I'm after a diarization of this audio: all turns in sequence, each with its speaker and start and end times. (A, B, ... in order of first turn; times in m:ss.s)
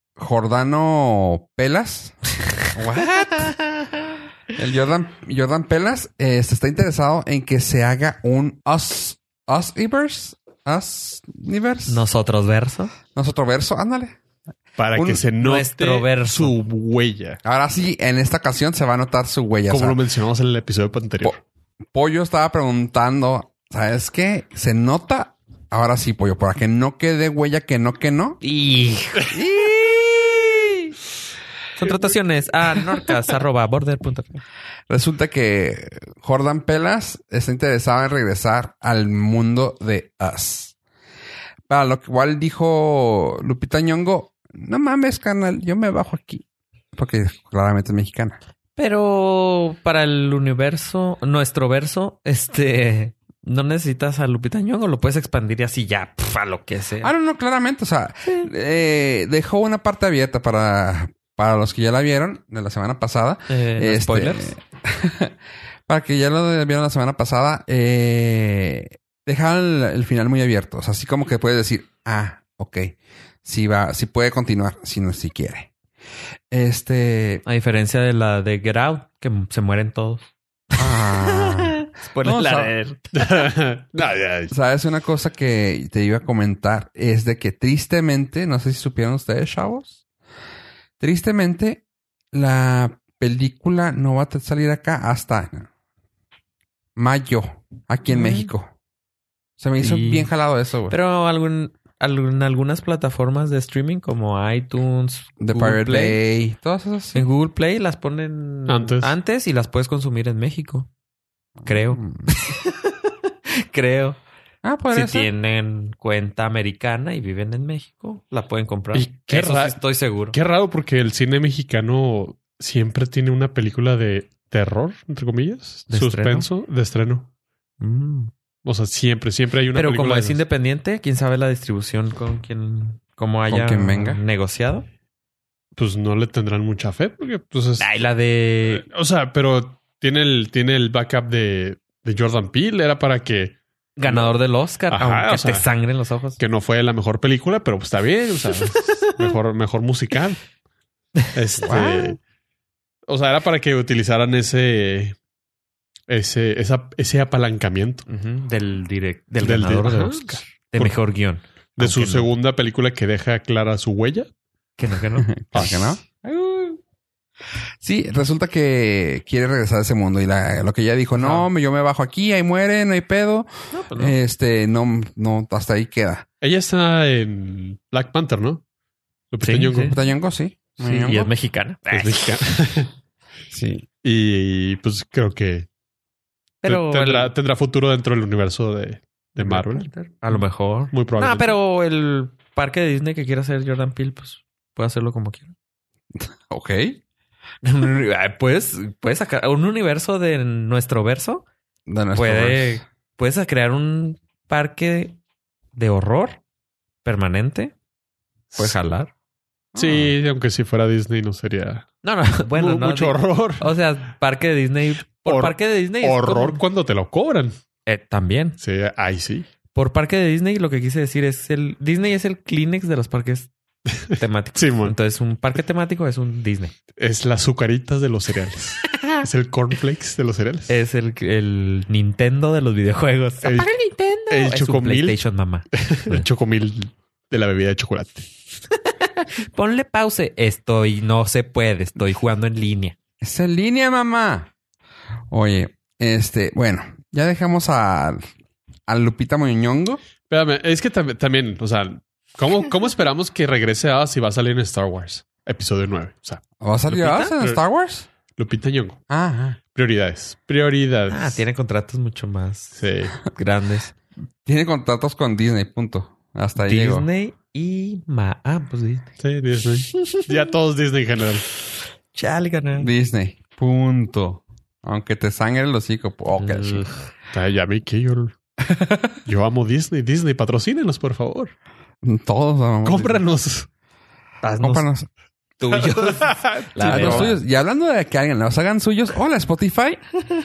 0:00.2-0:03.5 A
0:03.0-0:03.9 B
0:04.5-0:12.0 A
0:11.9-0:12.9 B
0:13.1-0:14.2 A
0:14.8-0:17.4 C
0:14.9-0:15.2 A
0:15.4-0:16.5 B
0:17.4-0:20.0 A
0:19.7-0:21.4 C
0:21.9-0:28.4 A
0:28.4-0:29.4 B
0:29.3-0:30.9 A
0:31.8-0:34.4 B
0:34.9-0:40.7 A
0:41.7-0:48.4 A
0:48.8-0:57.1 B
0:57.0-1:05.3 A
1:03.5-1:04.5 B
1:05.9-1:15.7 A
1:16.5-1:17.4 A
1:17.4-1:23.5 B
1:20.8-1:22.7 A
1:23.1-1:24.5 C
1:24.5-1:30.0 A
1:31.0-1:35.7 A
1:37.0-1:38.7 A
1:38.1-1:38.5 B
1:39.6-1:41.0 A
1:39.8-1:40.3 B
1:40.9-1:46.2 B
1:45.4-1:47.2 A
1:47.1-1:50.9 B
1:48.7-1:49.2 C
1:51.6-1:52.3 A
1:51.6-1:54.2 B
1:54.6-1:55.3 A
1:54.9-2:00.4 B
1:58.9-1:59.8 C
2:00.3-2:07.3 C
2:05.9-2:06.5 B
2:07.8-2:08.3 B
2:08.6-2:10.4 C
2:09.7-2:14.8 B
2:13.5-2:14.2 A
2:15.8-2:17.9 C
2:17.8-2:18.8 B
2:18.7-2:24.4 C
2:24.0-2:26.4 B
2:24.9-2:25.7 C
2:26.4-2:30.4 C
2:28.7-2:29.3 B
2:31.2-2:32.1 B
2:31.3-2:32.2 C
2:31.6-2:32.0 A
2:33.1-2:35.2 C
2:36.1-2:38.0 C
2:38.1-2:42.3 B
2:39.4-2:41.0 C
2:41.8-2:44.3 C
2:44.8-2:46.0 B
2:45.3-2:46.8 A
2:45.5-2:45.9 C
2:47.8-2:56.2 A
2:51.2-2:51.5 B
2:53.7-2:54.2 B
2:56.4-2:58.6 C
2:59.3-3:00.0 C
2:59.4-3:00.0 B
2:59.9-3:01.3 A
3:00.8-3:02.4 B
3:01.9-3:02.9 C
3:03.5-3:03.8 A
3:04.0-3:05.7 C
3:06.6-3:07.3 B
3:06.6-3:09.9 C
3:09.4-3:15.5 B
3:10.9-3:11.6 C
3:16.1-3:17.0 A
3:17.6-3:21.4 B
3:21.9-3:22.8 A
3:22.1-3:25.2 B
3:25.7-3:26.4 B
3:27.0-3:27.7 B
3:28.6-3:29.1 B
3:29.7-3:30.1 A
3:29.8-3:31.9 C
3:32.0-3:36.6 B
3:32.5-3:33.7 C
3:35.2-3:37.5 C
3:37.8-3:38.6 B
3:38.6-3:39.4 C
3:39.7-3:43.5 B
3:44.0-3:46.7 B
3:44.1-3:44.9 C
3:47.0-3:50.7 C
3:50.7-3:56.2 B
3:53.4-3:53.7 C
3:54.3-3:55.2 C
3:55.7-3:58.2 C
3:58.8-4:03.0 B
4:03.2-4:04.5 A
4:05.3-4:08.2 A
4:08.9-4:10.0 A
4:10.3-4:16.4 C
4:16.6-4:18.1 A
4:16.9-4:17.3 B
4:16.9-4:17.6 C
4:18.3-4:19.0 C
4:19.1-4:19.6 A
4:19.7-4:21.4 C
4:21.1-4:23.9 B
4:22.8-4:23.2 C
4:24.4-4:27.0 A
4:26.6-4:29.0 B
4:29.2-4:31.4 C
4:29.9-4:30.4 B
4:32.1-4:32.9 B
4:32.8-4:36.9 A
4:36.4-4:37.0 B
4:37.3-4:38.3 C
4:38.6-4:39.2 A
4:39.2-4:41.5 C
4:42.0-4:43.2 A
4:42.8-4:43.7 C
4:44.4-4:44.9 B
4:44.6-4:45.1 A
4:45.6-4:47.4 B
4:45.8-4:47.4 C
4:46.8-4:50.0 A